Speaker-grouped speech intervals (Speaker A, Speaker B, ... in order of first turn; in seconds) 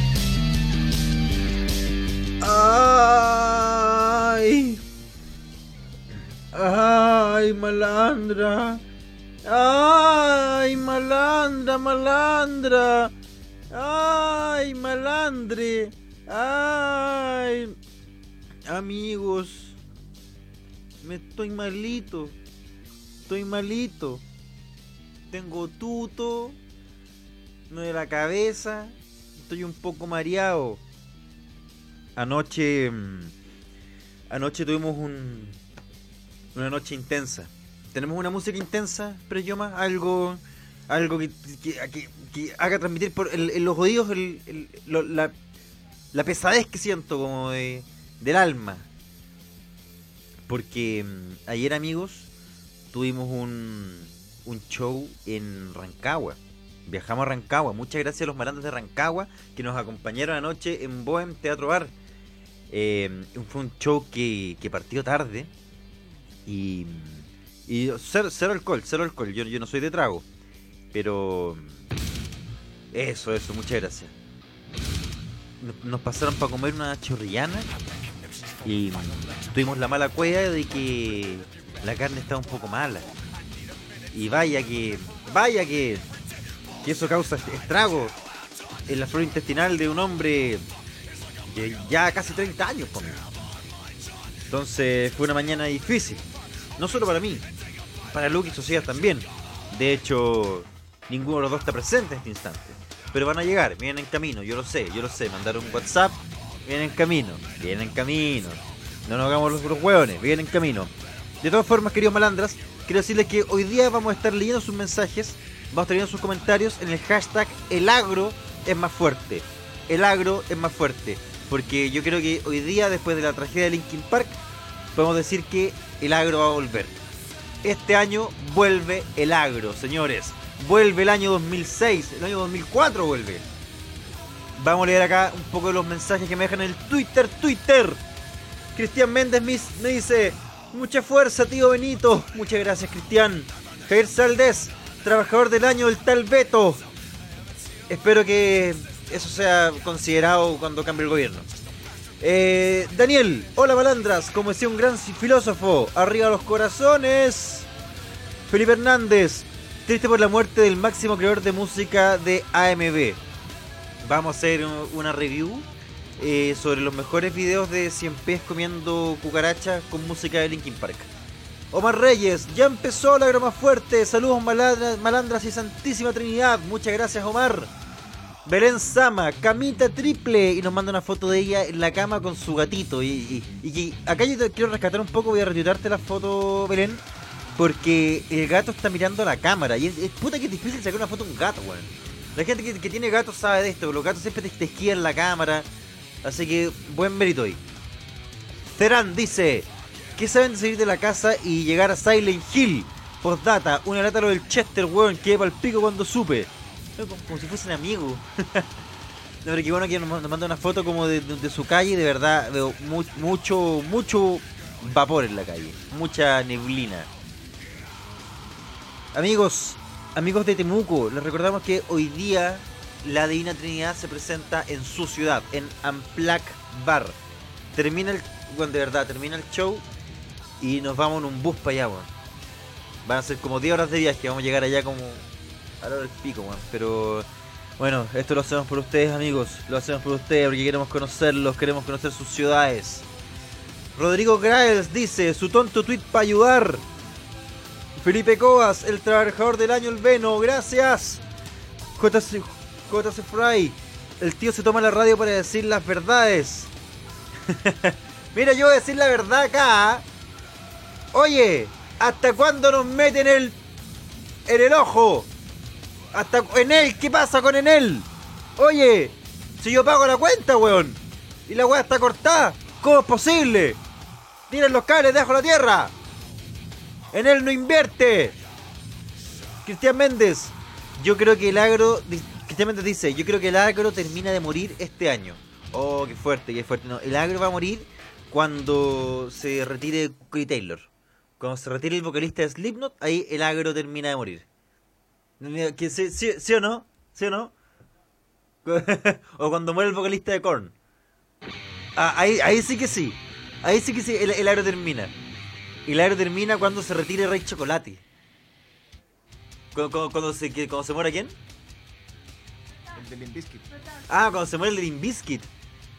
Speaker A: 2.4-4.8, 6.5-8.8, 9.4-13.1, 13.7-17.8, 18.7-19.8, 21.0-22.4, 23.3-24.2, 25.3-26.6, 27.7-30.8, 32.2-33.3, 34.3-35.6, 36.5-45.3, 46.1-48.9, 50.5-52.3, 52.9-61.9, 62.7-65.5, 66.5-70.2, 70.9-71.8, 72.9-74.1, 75.6-77.7, 78.7-83.1, 84.1-86.1, 86.8-88.2, 88.9-90.6, 91.5-93.3, 94.5-96.2, 96.8-97.5, 98.1-124.4, 125.0-127.0, 127.6-133.4, 134.6-138.0, 138.8-146.8, 147.9-151.5, 152.2-157.7, 158.5-163.2, 164.0-165.7, 166.2-171.1, 171.7-177.7, 178.4-187.0, 187.6-195.7, 196.2-197.6, 198.7-208.7, 209.4-217.1, 219.1-227.2, 227.7-229.8, 230.6-232.1, 233.1-235.2, 235.8-237.3, 237.8-243.1, 244.0-246.8, 248.0-251.2, 252.0-256.7, 257.5-260.1, 261.1-263.6, 264.5-265.3, 266.1-273.8, 274.5-275.9, 277.1-278.4, 279.6-290.9, 291.4-294.5, 295.4-297.5, 298.6-300.7, 302.0-305.1, 305.9-308.0, 309.7-311.4, 314.1-315.5